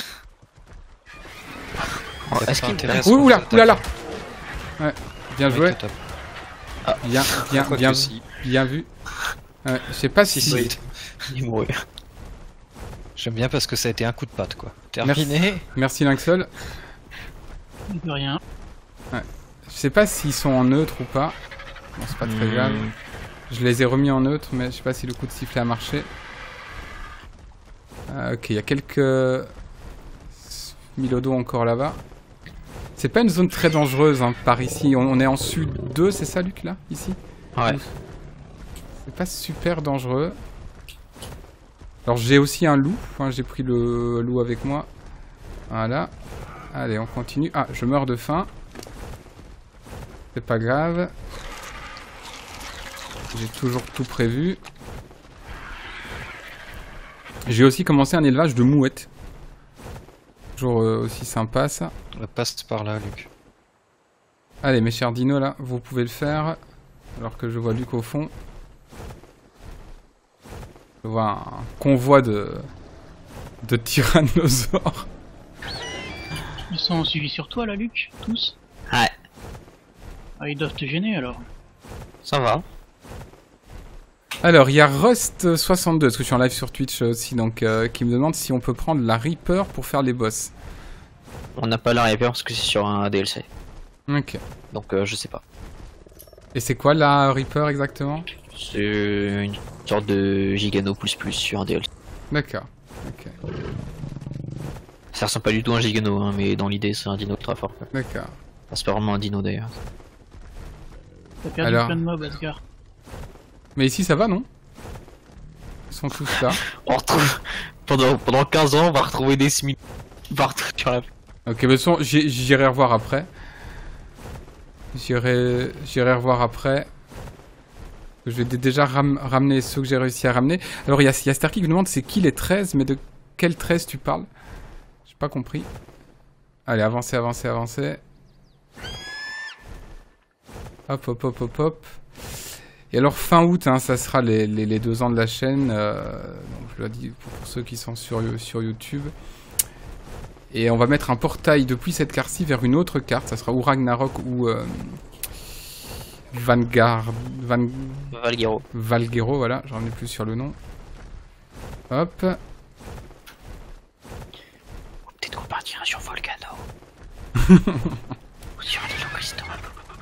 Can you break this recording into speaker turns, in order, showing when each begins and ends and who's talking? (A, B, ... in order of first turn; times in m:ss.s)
0:02.3-0:03.1 A
0:02.4-0:03.8 B
0:03.0-0:03.8 C
0:04.8-0:05.8 C
0:05.5-0:06.0 B
0:07.0-0:08.9 C
0:07.5-0:08.2 B
0:09.6-0:10.7 C
0:10.3-0:10.8 B
0:11.3-0:11.7 A
0:13.2-0:15.6 B
0:15.0-0:16.5 C
0:17.9-0:18.4 D
0:19.1-0:21.4 C
0:22.0-0:22.8 C
0:22.2-0:22.9 A
0:23.5-0:26.1 C
0:28.1-0:29.5 C
0:30.4-0:32.0 C
0:33.0-0:37.9 C
0:37.5-0:37.8 A
0:39.0-0:40.4 C
0:42.0-0:44.9 C
0:45.7-0:46.1 C
0:46.7-0:48.5 C
0:50.3-0:51.1 C
0:53.3-0:54.6 C
0:57.5-0:59.1 C
1:00.6-1:01.9 C
1:02.2-1:03.3 B
1:04.6-1:06.6 C
1:07.2-1:08.3 C
1:11.0-1:12.7 C
1:13.6-1:15.1 C
1:16.7-1:18.6 D
1:20.4-1:21.4 D
1:22.2-1:22.6 A
1:24.4-1:30.5 C
1:31.6-1:33.5 A
1:34.1-1:34.4 C
1:34.7-1:35.4 A
1:36.5-1:38.3 C
1:38.5-1:41.8 A
1:42.3-1:43.3 C
1:45.1-1:47.9 A
1:47.9-1:48.3 C
1:48.7-1:49.7 A
1:51.4-1:52.6 D
1:51.6-1:52.0 C
1:53.8-1:54.4 C
1:55.9-1:56.6 C
1:56.5-1:59.8 A
2:00.3-2:01.0 A
2:01.4-2:03.3 C
2:04.9-2:06.9 C
2:08.2-2:14.3 C
2:15.1-2:15.7 C
2:16.7-2:18.0 C
2:20.9-2:22.0 C
2:22.9-2:29.1 C
2:30.5-2:35.0 C
2:36.3-2:38.2 C
2:38.1-2:38.6 A
2:38.7-2:40.6 C
2:41.9-2:42.4 C
2:45.1-2:46.6 A
2:47.5-2:48.0 C
2:48.6-2:49.6 A